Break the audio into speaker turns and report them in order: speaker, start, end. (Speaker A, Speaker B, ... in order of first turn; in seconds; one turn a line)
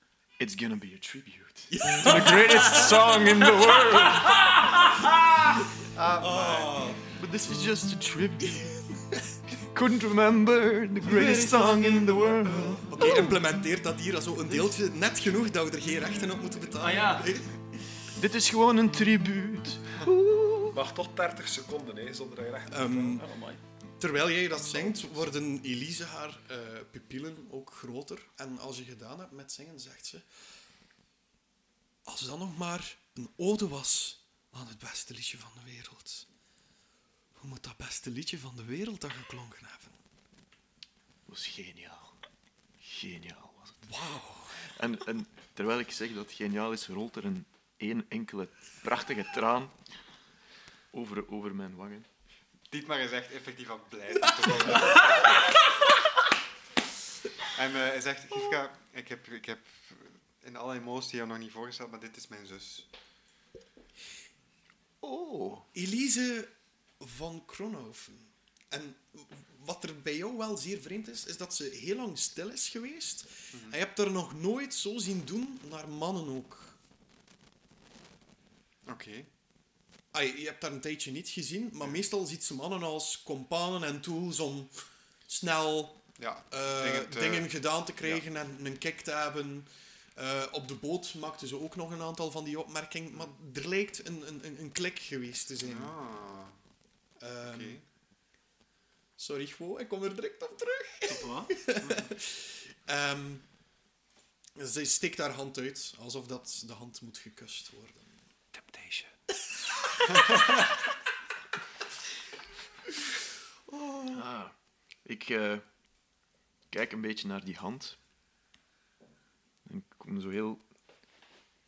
Speaker A: 0.4-4.6
Speaker B: 1.7-3.1
Speaker C: 5.9-6.9
Speaker B: 6.2-7.0
Speaker A: 7.1-8.8
Speaker B: 8.4-9.2
Speaker A: 9.6-13.3
Speaker B: 11.1-12.1
Speaker B: 12.8-17.8
Speaker D: 16.8-17.4
Speaker A: 18.1-20.8
Speaker E: 20.7-23.2
Speaker B: 22.7-23.3
Speaker D: 23.1-23.6
Speaker B: 24.0-30.3
Speaker B: 32.0-36.3
Speaker B: 37.4-40.0
Speaker A: 41.3-42.2
Speaker A: 42.8-43.9
Speaker B: 43.8-44.6
Speaker A: 44.6-49.8
Speaker A: 50.9-52.1
Speaker C: 52.7-55.3
Speaker B: 54.7-55.0
Speaker C: 57.5-62.9
Speaker A: 65.0-65.7
Speaker B: 65.7-76.8
Speaker C: 78.9-79.3
Speaker B: 80.1-84.7
Speaker B: 85.3-95.9
Speaker C: 86.2-87.5
Speaker C: 95.6-96.5
Speaker B: 97.2-97.8
Speaker C: 97.5-97.8
Speaker B: 99.2-103.5
Speaker D: 101.1-102.0
Speaker B: 104.5-108.2
Speaker E: 108.5-109.1
Speaker B: 113.7-114.2
Speaker A: 114.1-115.6
Speaker A: 116.7-118.0
Speaker A: 119.7-120.6